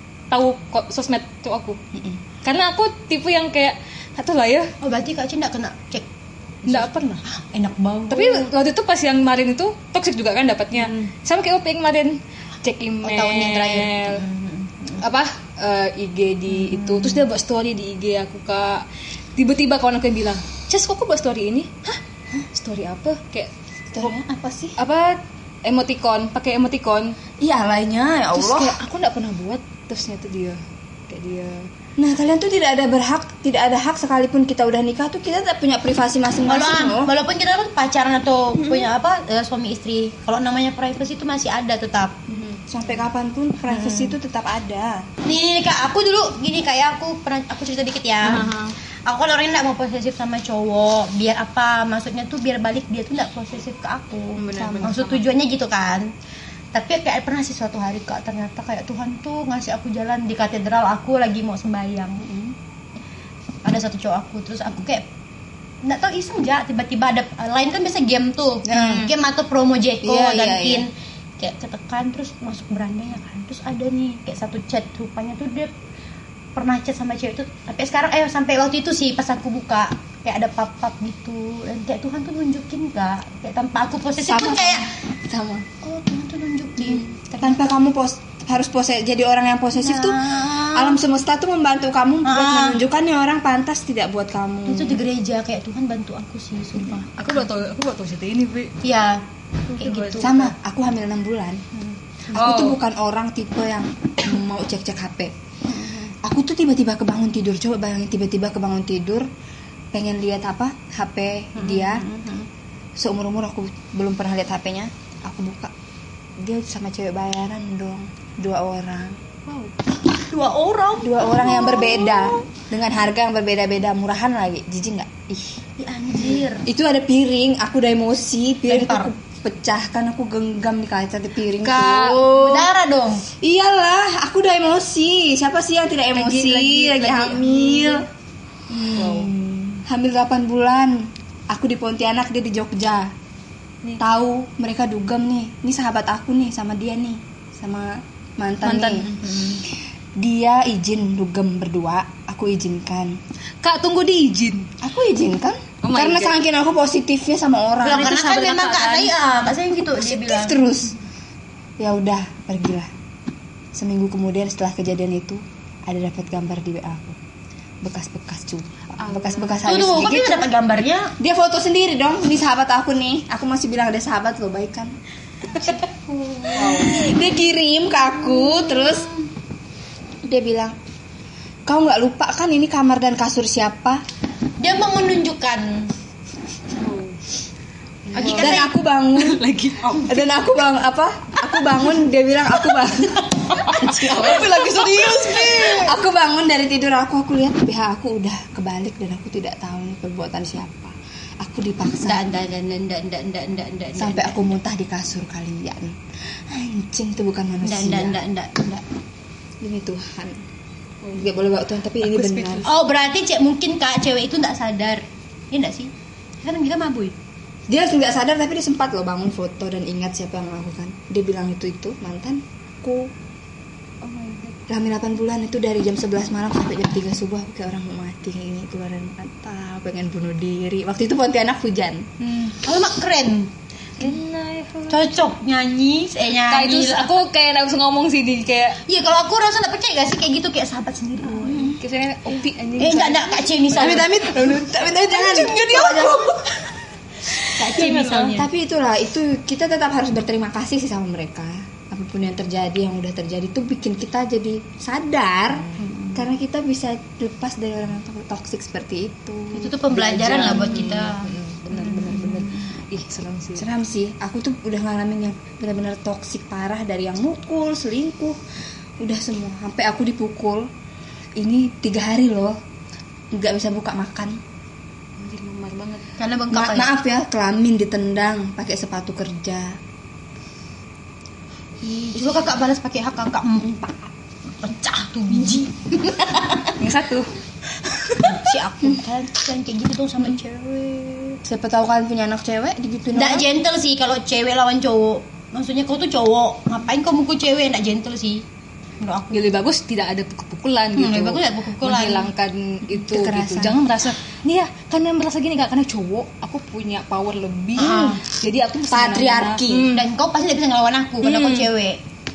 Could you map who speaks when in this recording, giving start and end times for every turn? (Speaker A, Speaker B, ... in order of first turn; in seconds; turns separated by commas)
Speaker A: 0.3-1.8, Speaker B: 1.9-2.2, Speaker A: 2.4-4.7, Speaker C: 4.8-6.1, Speaker A: 6.7-7.2, Speaker C: 6.7-8.5, Speaker A: 8.1-14.2, Speaker C: 10.8-11.1, Speaker C: 13.0-15.0, Speaker A: 15.0-18.8, Speaker C: 16.5-17.2, Speaker A: 19.4-22.0, Speaker A: 22.5-24.1, Speaker B: 23.9-24.8, Speaker A: 24.8-27.1, Speaker B: 27.4-28.8, Speaker A: 28.3-31.7, Speaker B: 32.0-37.1, Speaker C: 36.5-42.1, Speaker B: 38.6-38.9, Speaker B: 42.3-45.1, Speaker C: 43.7-44.1, Speaker C: 45.2-48.5, Speaker A: 48.2-48.7, Speaker C: 49.0-56.1, Speaker A: 54.4-55.2, Speaker B: 54.5-54.9, Speaker C: 56.7-62.2, Speaker B: 62.2-62.5, Speaker C: 63.6-65.0, Speaker C: 65.8-70.9, Speaker B: 68.7-69.1, Speaker B: 70.0-70.8, Speaker C: 71.4-75.7, Speaker C: 76.5-84.9, Speaker B: 84.2-85.8, Speaker C: 85.8-87.2, Speaker B: 86.8-95.0, Speaker C: 89.8-91.0, Speaker C: 92.2-92.8, Speaker C: 94.7-97.1, Speaker A: 97.0-98.7, Speaker C: 98.8-100.4, Speaker A: 99.7-100.4, Speaker B: 100.2-101.6, Speaker B: 102.3-105.3, Speaker A: 102.3-102.8, Speaker C: 105.7-106.1, Speaker B: 106.2-109.3, Speaker B: 109.9-112.0, Speaker C: 111.5-112.5, Speaker B: 113.0-115.7, Speaker B: 116.4-119.2, Speaker C: 119.5-122.4, Speaker B: 121.0-125.6, Speaker C: 125.8-126.7, Speaker B: 126.6-132.3, Speaker C: 128.7-129.1, Speaker A: 131.6-132.7, Speaker C: 131.9-133.2, Speaker B: 133.4-138.1, Speaker A: 136.2-138.1, Speaker C: 138.7-139.3, Speaker A: 138.9-139.3, Speaker B: 138.9-143.1, Speaker B: 144.0-149.1, Speaker A: 148.6-149.6, Speaker B: 150.2-153.1, Speaker A: 153.6-154.7, Speaker B: 154.8-158.2, Speaker A: 155.8-156.3, Speaker C: 157.8-160.6, Speaker A: 157.8-159.3, Speaker B: 160.0-160.9, Speaker B: 161.8-162.9, Speaker B: 163.7-167.2, Speaker B: 167.8-170.5, Speaker A: 169.0-169.8, Speaker C: 169.6-171.1, Speaker B: 171.2-174.9, Speaker C: 175.5-177.1, Speaker B: 176.5-179.1, Speaker A: 176.6-177.1, Speaker C: 178.1-179.2, Speaker B: 180.2-180.8, Speaker B: 181.7-184.0, Speaker C: 184.6-185.9, Speaker A: 186.7-187.2, Speaker A: 188.1-190.2, Speaker C: 188.1-188.7, Speaker B: 188.2-189.4, Speaker B: 190.0-194.6, Speaker C: 193.2-195.8, Speaker A: 193.6-196.0, Speaker B: 195.2-202.3, Speaker C: 202.0-204.5, Speaker B: 204.0-208.8, Speaker C: 207.6-208.6, Speaker B: 209.6-210.4, Speaker B: 211.1-212.7, Speaker A: 212.0-212.8, Speaker C: 212.6-215.9, Speaker C: 216.4-217.2, Speaker B: 217.7-223.1, Speaker B: 224.7-232.1, Speaker A: 232.2-232.5, Speaker C: 232.6-233.5, Speaker A: 234.0-235.2, Speaker C: 234.9-237.1, Speaker A: 236.5-238.8, Speaker C: 238.8-241.8, Speaker B: 241.4-241.8, Speaker A: 241.8-246.8, Speaker C: 242.8-244.1, Speaker B: 243.7-246.4, Speaker A: 247.3-248.4, Speaker C: 247.5-248.4, Speaker B: 248.3-260.9, Speaker C: 255.8-256.2, Speaker C: 259.5-262.7, Speaker A: 260.2-263.7, Speaker B: 263.6-268.4, Speaker B: 269.0-270.7, Speaker B: 271.4-272.6, Speaker B: 273.3-274.4, Speaker A: 275.2-276.1, Speaker C: 276.2-276.9, Speaker B: 276.5-279.8, Speaker C: 281.8-286.8, Speaker A: 286.8-287.3, Speaker A: 287.8-288.4, Speaker C: 288.2-291.4, Speaker B: 291.4-293.4, Speaker C: 293.1-298.4, Speaker C: 299.0-299.5, Speaker A: 299.3-310.0, Speaker C: 300.9-302.3, Speaker B: 302.9-303.8, Speaker C: 307.8-308.2, Speaker B: 308.9-309.9, Speaker C: 309.9-312.0, Speaker A: 311.2-311.7